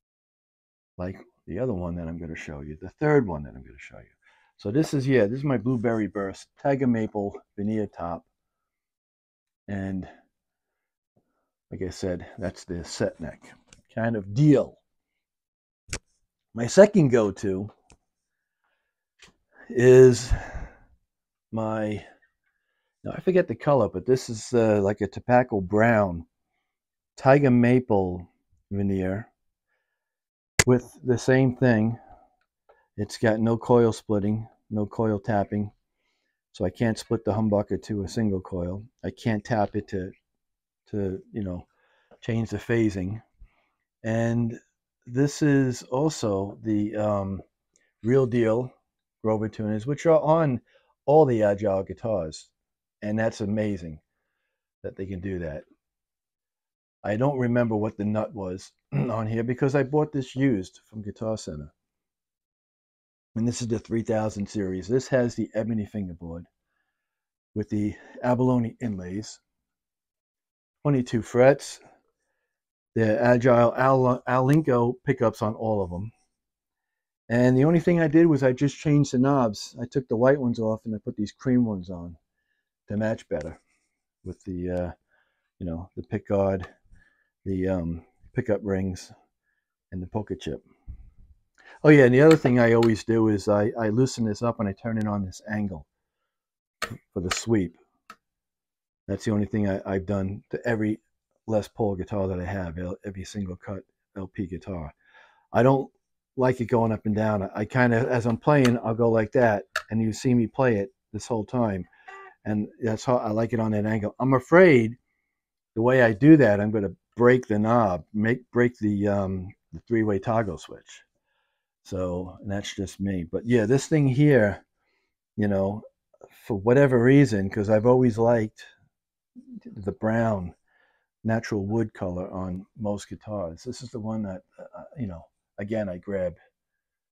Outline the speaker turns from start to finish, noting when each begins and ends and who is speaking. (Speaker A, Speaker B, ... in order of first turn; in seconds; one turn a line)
Speaker A: 1.0-8.3
Speaker A: 9.7-10.1
Speaker A: 11.7-14.8
Speaker A: 16.5-17.7
Speaker A: 19.7-20.7
Speaker A: 21.5-22.0
Speaker A: 23.0-26.2
Speaker A: 27.1-29.3
Speaker A: 30.6-32.0
Speaker A: 33.0-35.7
Speaker A: 36.5-40.1
Speaker A: 40.9-41.7
Speaker A: 42.2-43.2
Speaker A: 44.0-47.4
Speaker A: 48.0-52.5
Speaker A: 53.0-54.0
Speaker A: 54.8-55.6
Speaker A: 57.0-61.7
Speaker A: 63.3-66.5
Speaker A: 67.5-69.4
Speaker A: 70.8-71.8
Speaker A: 72.9-76.1
Speaker A: 77.3-82.2
Speaker A: 82.9-83.6
Speaker A: 84.2-84.9
Speaker A: 85.6-86.7
Speaker A: 87.4-89.1
Speaker A: 89.9-90.6
Speaker A: 91.8-95.9
Speaker A: 97.1-97.8
Speaker A: 99.1-104.9
Speaker A: 105.5-111.9
Speaker A: 112.4-115.0
Speaker A: 115.7-121.0
Speaker A: 121.8-124.6
Speaker A: 125.4-128.7
Speaker A: 129.5-130.6
Speaker A: 131.2-136.4